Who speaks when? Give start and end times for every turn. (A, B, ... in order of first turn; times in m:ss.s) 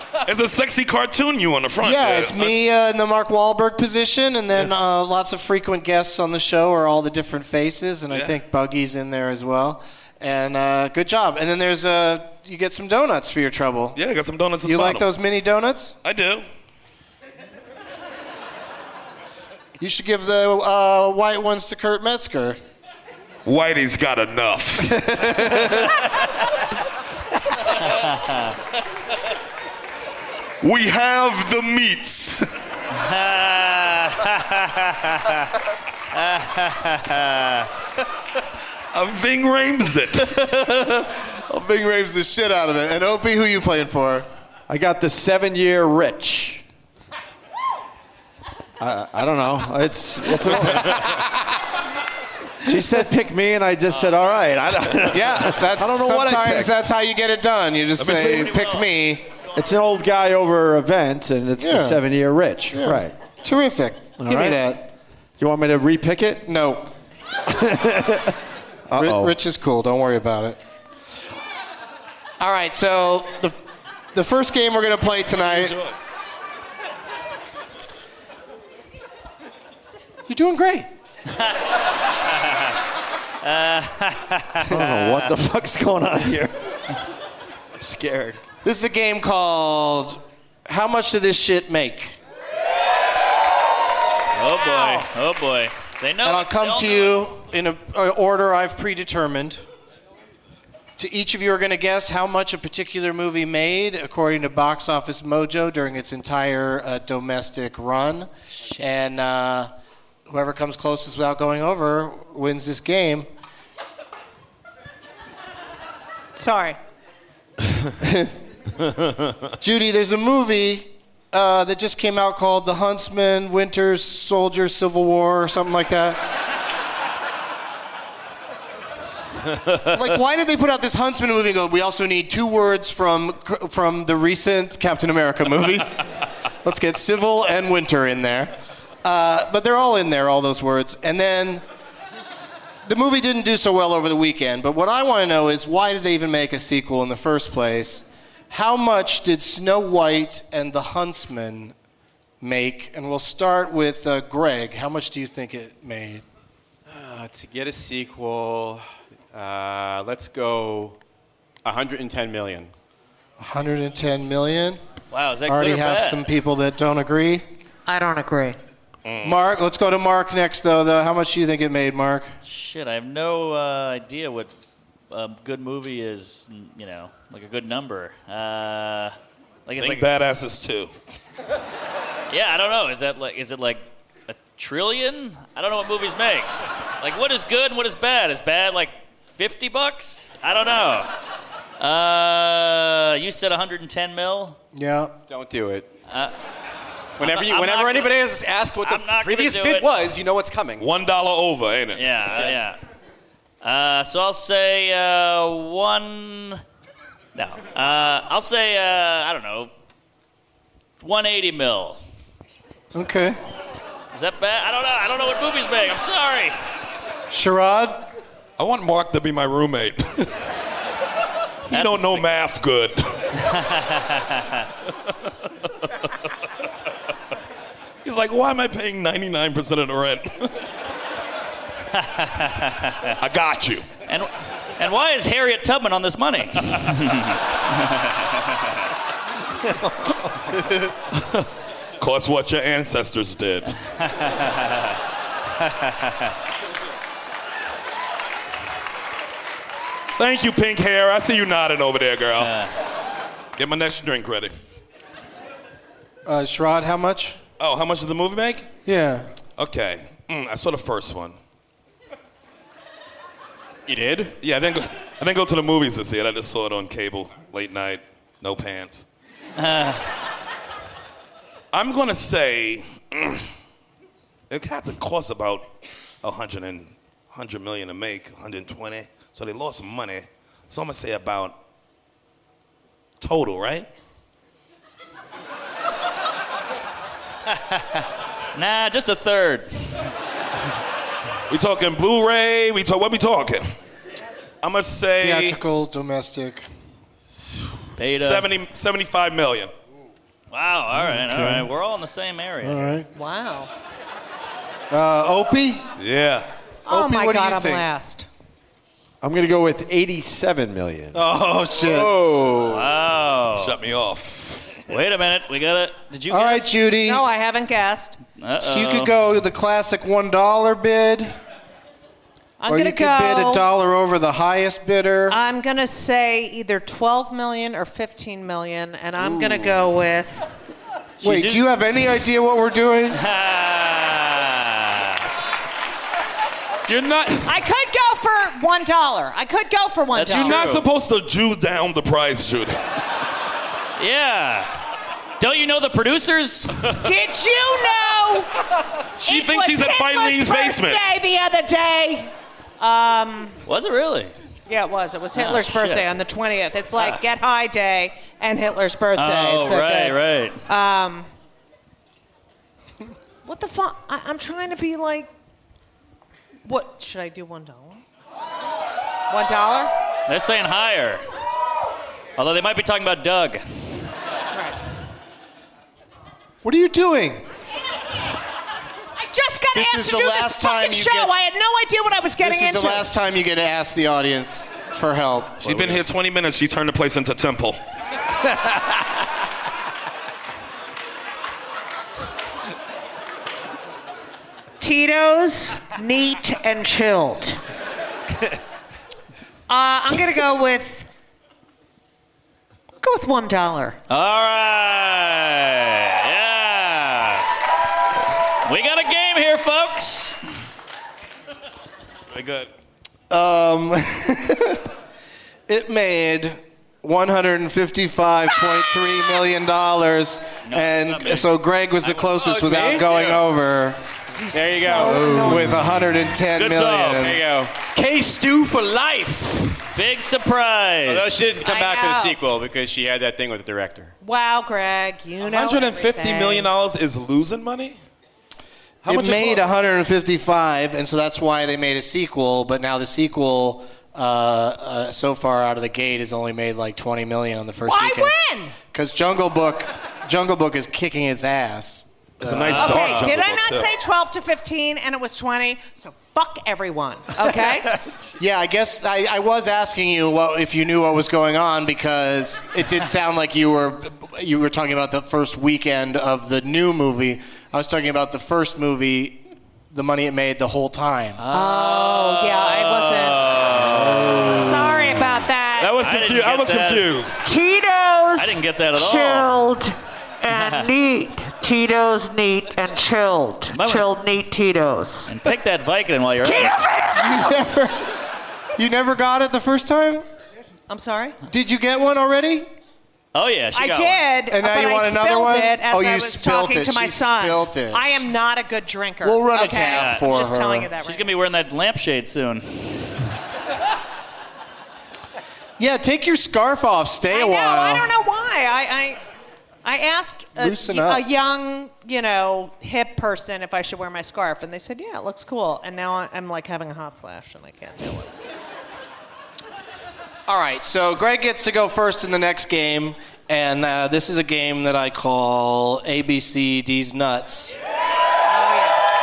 0:00.2-0:02.5 A
0:01.8-0:14.0 B
0:14.0-0:15.1 A
0:14.6-0:16.0 B
0:16.0-0:16.4 A
0:19.8-0:22.6 B
0:23.5-0:25.9 A
0:25.2-0:25.7 B
0:28.0-0:28.5 C
0:30.7-0:32.4 B
0:33.0-0:35.5 C
0:36.1-0:37.7 C
0:38.9-0:40.4 A
0:40.4-0:44.3 B
0:44.7-0:46.6 D
0:48.8-0:51.1 D
0:50.7-0:51.0 A
0:50.8-0:51.2 B
0:52.7-0:56.7 D
0:55.1-0:59.3 B
0:58.0-0:58.6 A
0:58.4-0:58.9 C
0:59.5-1:03.2 D
1:01.6-1:02.0 B
1:02.7-1:04.9 B
1:04.2-1:04.6 D
1:05.4-1:06.5 D
1:06.4-1:06.9 B
1:07.5-1:08.3 D
1:08.9-1:09.4 D
1:09.0-1:10.6 B
1:12.4-1:13.6 B
1:14.1-1:15.8 B
1:15.4-1:16.0 A
1:20.3-1:20.9 B
1:22.2-1:22.8 C
1:23.4-1:24.8 C
1:24.7-1:26.8 D
1:27.8-1:28.4 D
1:28.6-1:32.2 B
1:34.4-1:37.3 C
1:34.6-1:35.1 E
1:36.2-1:39.6 B
1:41.0-1:49.7 B
1:50.3-1:53.3 B
1:56.4-1:56.8 E
1:58.0-1:58.3 B
1:59.6-2:06.2 B
2:09.8-2:16.0 B
2:16.6-2:21.6 B
2:22.8-2:31.8 B
2:32.4-2:36.2 B
2:36.9-2:41.0 F
2:41.6-2:42.7 F
2:43.4-2:44.8 B
2:45.1-2:46.2 C
2:45.5-2:47.4 B
2:47.9-2:48.6 E
2:49.1-2:49.4 A
2:49.2-2:52.3 B
2:52.4-2:54.5 C
2:55.1-2:59.2 C
2:59.7-3:00.1 C
2:59.8-3:00.9 A
3:02.3-3:11.1 C
3:11.8-3:14.6 C
3:14.7-3:15.2 B
3:15.3-3:15.9 F
3:16.1-3:16.4 C
3:17.2-3:20.9 F
3:17.2-3:18.2 C
3:18.8-3:19.9 C
3:20.8-3:22.5 A
3:22.0-3:22.8 C
3:23.6-3:26.6 C
3:27.4-3:29.7 C
3:31.0-3:32.0 C
3:32.9-3:33.4 B
3:34.1-3:36.6 C
3:37.3-3:38.1 B
3:38.6-3:40.3 A
3:41.7-3:43.3 A
3:41.7-3:42.3 C
3:43.4-3:44.6 C
3:48.0-3:50.7 A
3:52.0-3:53.0 C
3:53.2-3:53.9 A
3:54.1-3:58.4 C
4:01.2-4:01.5 A
4:02.0-4:03.7 A
4:04.1-4:04.9 C
4:05.7-4:06.1 C
4:10.2-4:12.6 A
4:12.4-4:12.7 C
4:13.6-4:14.6 A
4:16.3-4:17.4 B
4:17.6-4:18.7 A
4:18.9-4:19.3 B
4:19.6-4:21.4 A
4:23.9-4:24.4 F
4:24.4-4:29.1 A
4:29.6-4:30.0 C
4:31.7-4:33.5 A
4:34.5-4:35.7 A
4:36.2-4:41.6 A
4:43.2-4:43.9 A
4:47.6-4:50.1 C
4:51.5-4:53.7 A
4:54.6-4:55.6 A
4:55.2-4:56.7 B
4:58.0-4:58.5 C
4:58.0-4:59.7 A
5:00.5-5:03.0 C
5:01.0-5:01.7 B
5:02.6-5:03.1 B
5:03.2-5:03.7 E
5:04.9-5:05.8 B
5:06.0-5:06.5 A
5:06.9-5:08.3 E
5:06.9-5:07.9 B
5:09.2-5:11.2 D
5:11.1-5:12.2 B
5:11.8-5:12.9 F
5:12.6-5:13.8 C
5:13.5-5:14.8 A
5:14.9-5:16.8 C
5:16.3-5:17.2 B
5:17.0-5:18.2 E
5:18.4-5:19.1 C
5:18.6-5:21.4 B
5:22.6-5:23.7 E
5:22.7-5:25.4 B
5:25.3-5:30.4 E
5:31.2-5:31.6 C
5:31.2-5:33.2 B
5:33.2-5:35.3 C
5:36.9-5:37.6 A
5:37.4-5:40.6 E
5:40.1-5:40.8 C
5:40.4-5:42.8 A
5:44.0-5:44.8 C
5:45.4-5:46.9 C
5:47.0-5:48.5 E
5:49.2-5:51.0 A
5:49.2-5:53.6 E
5:53.7-5:54.3 C
5:54.7-6:01.3 E
5:55.4-5:56.1 C
5:59.2-6:00.6 C
6:03.4-6:05.3 E
6:06.6-6:08.0 E
6:09.3-6:09.9 E
6:10.3-6:11.2 C
6:12.4-6:14.1 C
6:16.6-6:17.5 B
6:19.2-6:23.1 E
6:19.7-6:21.4 B
6:22.4-6:25.9 B
6:25.6-6:27.8 A
6:34.8-6:37.6 E
6:39.7-6:41.1 E
6:43.0-6:44.0 E
6:44.1-6:47.5 C
6:48.6-6:50.4 C
6:52.3-6:52.7 A
6:53.3-6:54.9 B
6:55.7-7:04.0 B
7:00.7-7:01.5 C
7:02.4-7:03.4 F
7:04.4-7:05.8 E
7:04.5-7:05.8 F
7:05.4-7:07.4 B
7:06.6-7:07.4 C
7:07.1-7:09.8 F
7:09.9-7:11.5 C
7:11.1-7:14.1 F
7:11.6-7:12.4 E
7:14.2-7:16.7 E
7:15.4-7:18.0 A
7:19.1-7:33.0 B
7:27.8-7:28.8 E
7:32.4-7:33.9 A
7:32.7-7:38.0 E
7:38.4-7:51.4 B
7:51.4-7:54.9 C
7:51.5-7:53.5 E
7:54.5-7:56.0 E
7:55.8-7:57.4 A
7:56.0-7:57.1 C
7:57.4-7:59.9 E
7:58.4-7:59.6 C
8:00.4-8:05.3 E
8:00.5-8:00.9 C
8:03.7-8:04.2 C
8:05.3-8:06.8 C
8:06.5-8:07.2 E
8:07.1-8:08.1 B
8:08.8-8:10.2 B
8:10.9-8:11.4 E
8:11.5-8:12.7 B
8:13.3-8:14.2 C
8:13.8-8:21.3 E
8:14.5-8:18.2 B
8:19.2-8:20.9 B
8:19.7-8:20.3 C
8:21.0-8:23.2 C
8:25.8-8:28.1 B
8:27.3-8:29.2 E
8:29.8-8:38.3 E
8:30.6-8:31.2 B
8:40.5-8:47.8 B
8:48.5-8:49.0 E